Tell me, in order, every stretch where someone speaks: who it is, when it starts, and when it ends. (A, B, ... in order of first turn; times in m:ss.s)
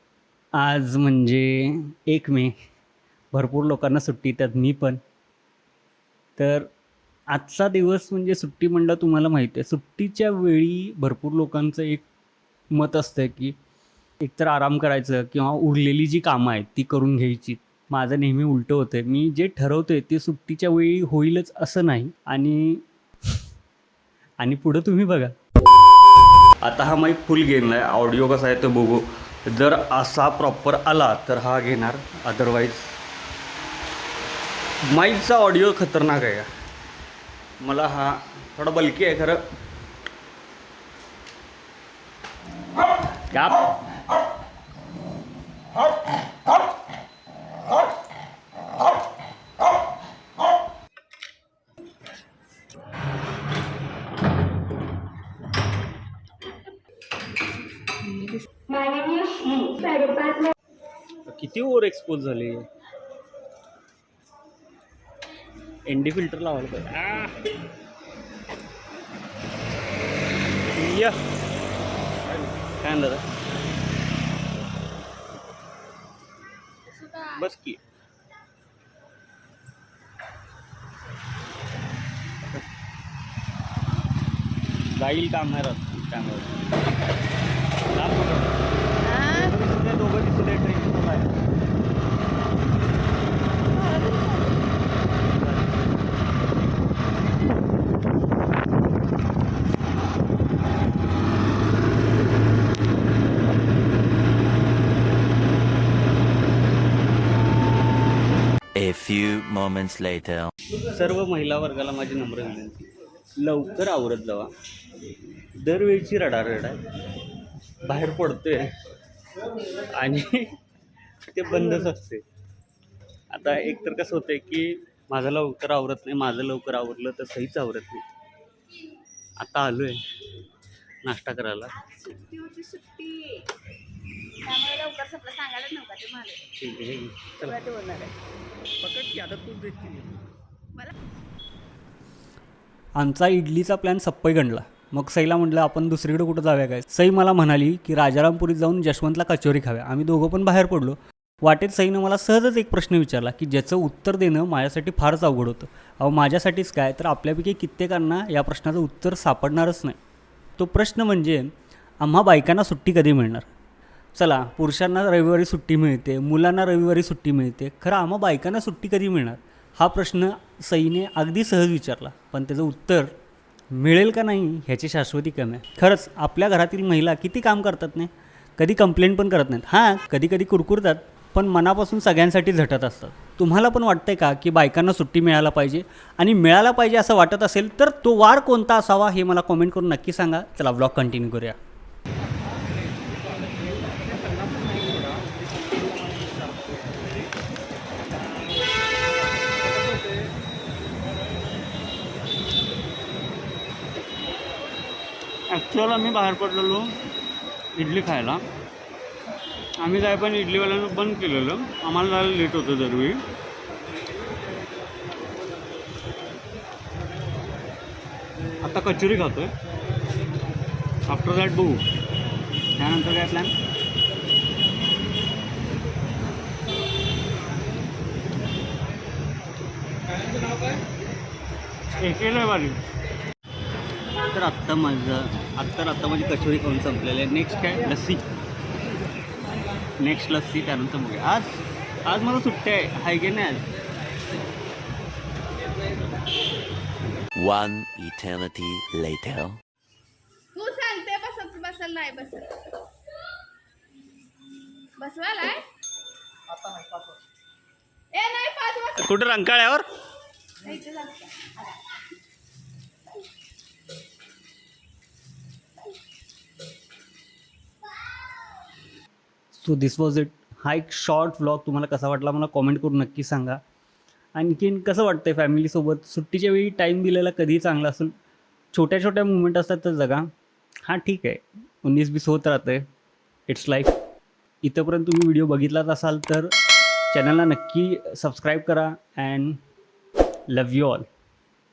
0:00.6-0:02.5 A
0:03.3-0:05.0 A
0:06.4-0:06.7 A
0:07.3-0:12.0 A
0:12.7-0:13.5 A
0:14.2-0:22.8 A
0:24.4-0:25.3 A
0:26.6-0:33.0 A
0:34.8-0:36.5 A
0:37.6-0:39.4 A
0:43.3-0:43.7 A
0:59.8-1:00.3 B
1:01.3-1:02.7 A
1:05.9-1:07.4 A
1:10.7-1:11.2 A
1:12.7-1:13.3 A
1:16.9-1:17.5 B
1:17.3-1:17.8 A
1:22.4-1:22.6 A
1:24.9-1:26.6 A
1:27.9-1:28.6 A
1:29.0-1:29.6 B
1:29.3-1:31.4 A
1:33.8-1:34.5 B
1:35.3-1:35.8 A
1:48.8-1:50.5 C
1:50.8-1:54.5 A
1:55.6-1:56.8 A
1:57.8-1:58.7 A
1:59.6-2:00.5 A
2:01.3-2:02.2 A
2:03.3-2:08.0 A
2:09.4-2:10.0 A
2:11.0-2:11.8 A
2:11.8-2:13.4 B
2:14.4-2:16.4 B
2:16.6-2:17.6 A
2:17.4-2:18.1 B
2:18.8-2:20.1 A
2:23.0-2:40.0 A
2:40.6-2:41.5 A
2:42.0-2:43.5 A
2:44.1-2:53.1 A
2:53.7-3:11.6 A
3:25.5-3:26.9 A
3:27.8-3:28.4 A
3:29.8-3:33.2 A
3:38.6-3:39.5 A
3:41.1-3:41.8 A
3:42.8-3:43.5 A
3:52.0-3:52.8 A
3:54.3-3:58.2 A
4:00.0-4:03.6 A
4:07.4-4:09.6 C
4:10.5-4:12.6 B
4:15.0-4:15.6 B
4:18.1-4:19.1 B
4:19.0-4:19.9 A
4:20.6-4:21.5 B
4:29.5-4:33.6 A
4:34.4-4:38.1 A
4:38.7-4:40.3 A
4:40.9-4:42.8 A
4:43.5-4:44.0 A
4:44.6-4:46.5 A
4:47.1-4:49.6 A
4:50.5-4:51.1 A